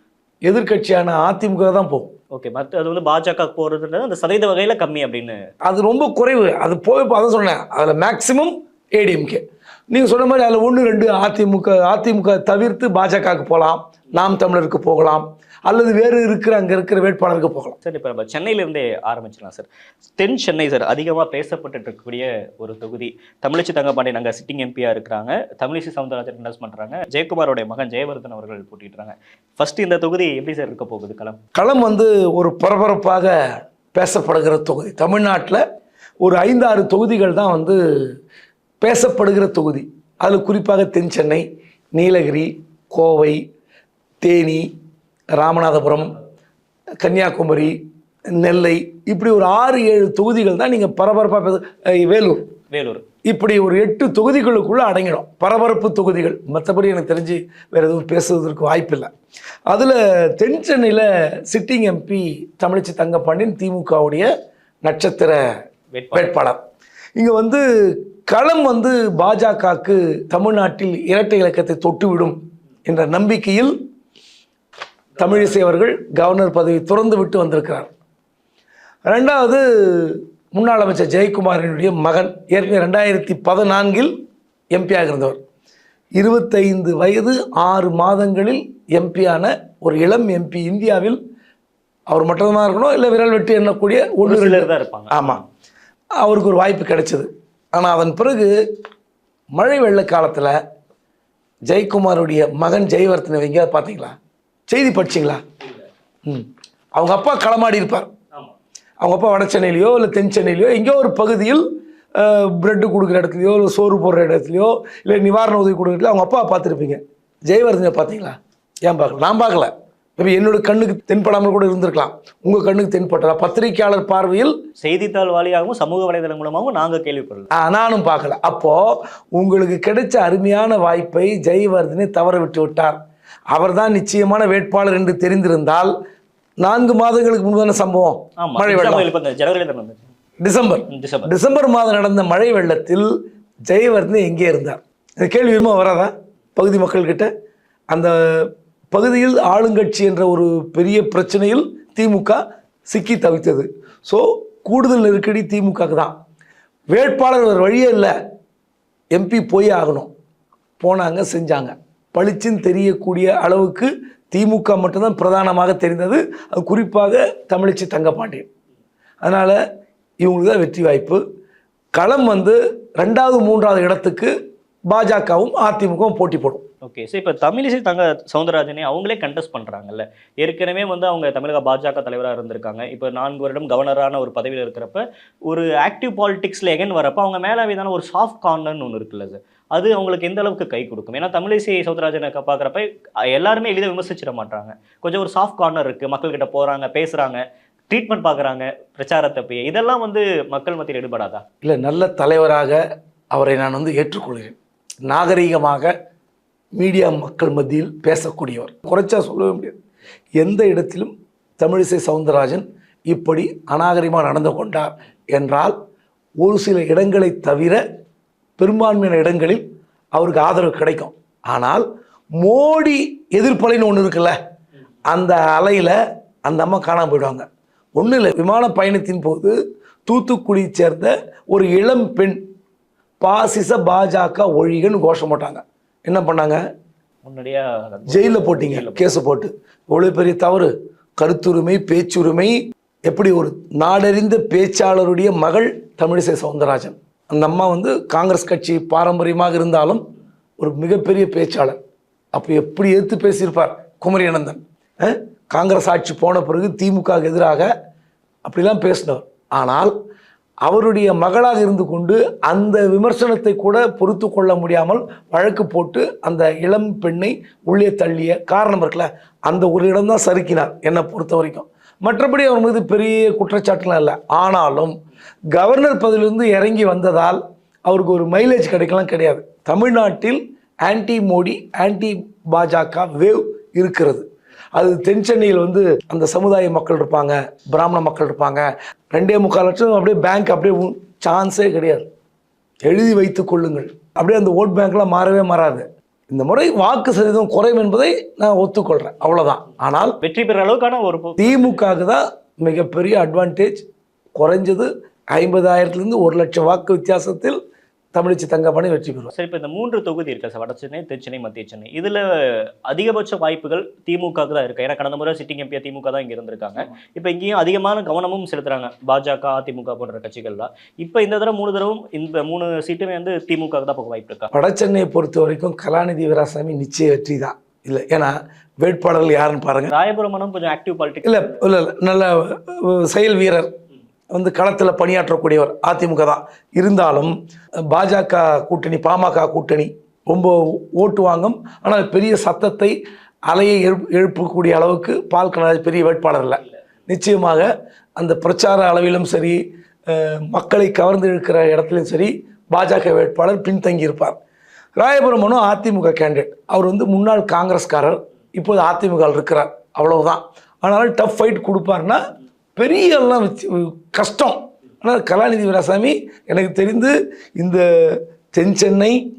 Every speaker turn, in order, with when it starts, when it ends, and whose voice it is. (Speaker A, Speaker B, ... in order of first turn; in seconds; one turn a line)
Speaker A: 0.5-2.1
Speaker B: 2.3-5.4
Speaker A: 5.6-17.8
Speaker B: 17.8-31.4
Speaker A: 31.6-33.3
Speaker A: 33.9-35.6
Speaker A: 36.2-37.8
Speaker A: 38.8-43.4
Speaker A: 44.2-44.6
Speaker A: 45.3-46.1
Speaker A: 47.0-47.8
Speaker A: 48.3-52.4
Speaker B: 52.7-53.0
Speaker A: 53.3-59.1
Speaker A: 59.7-64.3
Speaker A: 64.8-65.4
Speaker B: 65.9-66.3
Speaker A: 66.1-66.6
Speaker A: 67.2-73.7
Speaker A: 75.2-77.9
Speaker A: 79.0-84.1
Speaker A: 84.7-85.4
Speaker A: 86.2-91.2
Speaker A: 92.1-95.4
Speaker B: 94.2-95.4
Speaker A: 96.2-98.5
Speaker A: 99.5-100.5
Speaker A: 101.7-104.1
Speaker A: 104.7-105.4
Speaker A: 106.2-108.1
Speaker A: 109.0-111.6
Speaker A: 112.2-124.5
Speaker B: 124.8-127.5
Speaker A: 127.5-133.0
Speaker A: 133.5-135.9
Speaker A: 136.6-139.1
Speaker B: 138.4-140.0
Speaker A: 140.4-143.1
Speaker B: 140.9-141.3
Speaker A: 143.7-147.3
Speaker A: 148.9-156.1
Speaker A: 156.9-158.1
Speaker A: 159.1-160.1
Speaker A: 160.8-168.4
Speaker A: 169.2-169.6
Speaker A: 170.2-171.2
Speaker A: 171.9-174.3
Speaker A: 174.9-176.6
Speaker B: 176.8-201.4
Speaker A: 201.6-202.8
Speaker A: 203.3-205.9
Speaker A: 206.8-209.8
Speaker A: 210.4-215.7
Speaker A: 216.4-217.8
Speaker A: 218.6-219.6
Speaker A: 220.1-221.8
Speaker A: 222.4-224.3
Speaker A: 225.1-229.5
Speaker A: 230.1-232.4
Speaker A: 233.2-236.6
Speaker B: 237.2-239.2
Speaker A: 238.1-242.6
Speaker A: 243.1-250.0
Speaker A: 250.6-251.8
Speaker A: 252.3-257.7
Speaker A: 258.4-259.9
Speaker A: 260.6-274.9
Speaker A: 275.5-292.1
Speaker A: 292.9-300.1
Speaker B: 300.2-301.8
Speaker A: 301.4-303.8
Speaker A: 304.4-307.6
Speaker A: 308.1-309.3
Speaker B: 309.3-324.5
Speaker A: 324.5-329.9
Speaker B: 329.9-331.6
Speaker A: 331.2-333.7
Speaker A: 334.3-337.3
Speaker A: 337.9-342.9
Speaker A: 343.5-354.4
Speaker A: 355.0-362.2
Speaker A: 362.8-369.2